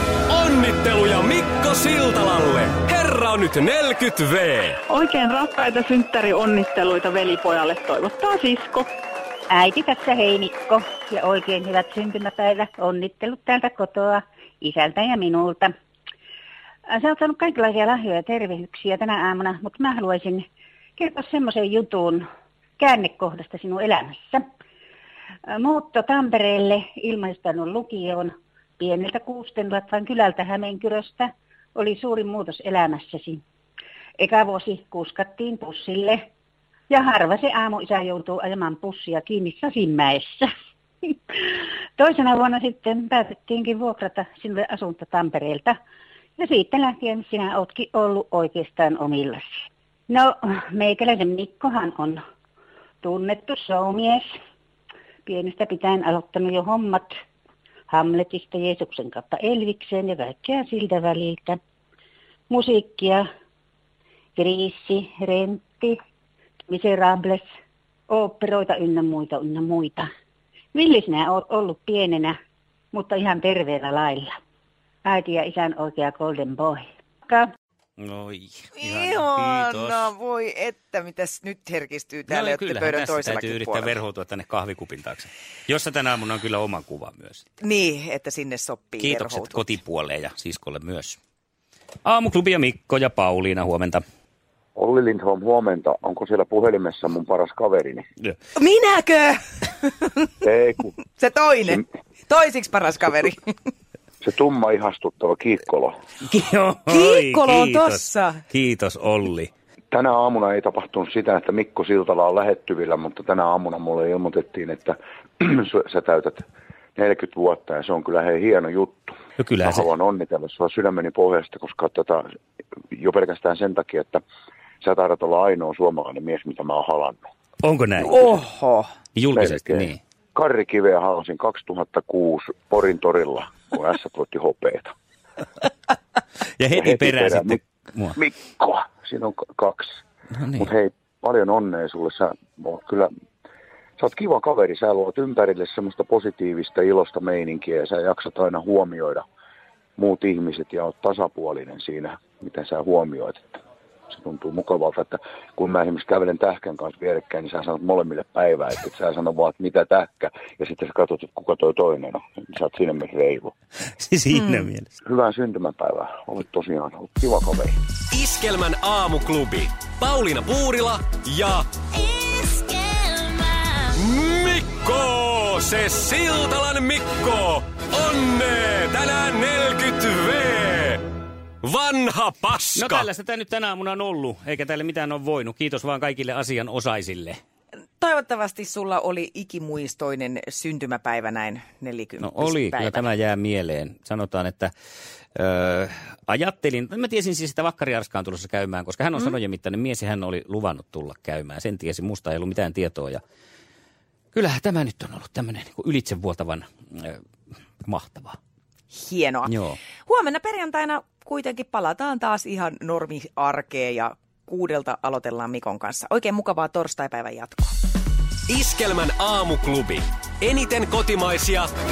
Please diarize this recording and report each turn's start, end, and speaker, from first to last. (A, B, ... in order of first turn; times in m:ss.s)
0:00.3-0:04.8 A
0:04.8-0:08.9 B
0:09.5-0:15.7 C
0:16.9-0:20.5 C
0:21.0-0:22.3 C
0:22.8-0:24.4 C
0:25.5-0:33.4 C
0:34.2-0:36.3 C
0:36.9-0:40.5 C
0:42.0-0:45.8 C
0:46.4-0:49.5 C
0:50.1-0:52.2 C
0:53.0-0:54.2 C
0:55.3-0:57.1 C
0:57.9-1:01.6 C
1:02.5-1:03.3 C
1:04.4-1:06.0 C
1:06.7-1:07.4 C
1:08.1-1:10.1 C
1:10.7-1:12.4 C
1:12.9-1:14.4 C
1:15.0-1:17.5 C
1:18.0-1:20.1 D
1:18.8-1:24.0 E
1:22.3-1:27.4 D
1:27.6-1:29.7 E
1:29.0-1:31.2 D
1:32.0-1:34.0 D
1:34.8-1:38.0 F
1:38.6-1:40.4 E
1:40.4-1:40.9 F
1:41.2-1:43.4 E
1:44.2-1:46.0 F
1:46.2-1:49.5 D
1:46.9-1:48.4 E
1:49.9-1:56.4 F
1:57.0-2:02.3 F
1:59.4-1:59.9 D
2:02.9-2:04.2 F
2:04.8-2:07.3 F
2:07.6-2:08.4 D
2:08.0-2:08.9 E
2:09.2-2:10.0 D
2:09.3-2:14.9 F
2:16.6-2:18.2 D
2:16.7-2:17.6 F
2:18.2-2:20.0 F
2:20.4-2:20.7 D
2:20.6-2:23.1 F
2:24.0-2:29.2 F
2:30.0-2:33.6 F
2:34.1-2:43.5 F
2:44.0-2:44.9 D
2:44.3-2:44.7 E
2:45.0-2:47.8 F
2:48.1-2:51.7 A
2:54.0-3:01.0 A
3:01.6-3:03.1 A
3:02.8-3:07.4 D
3:08.0-3:13.1 E
3:12.2-3:14.7 D
3:15.4-3:23.2 D
3:24.3-3:27.2 D
3:27.8-3:28.4 D
3:28.9-3:29.5 E
3:29.5-3:29.8 D
3:30.1-3:37.8 E
3:38.5-3:41.7 A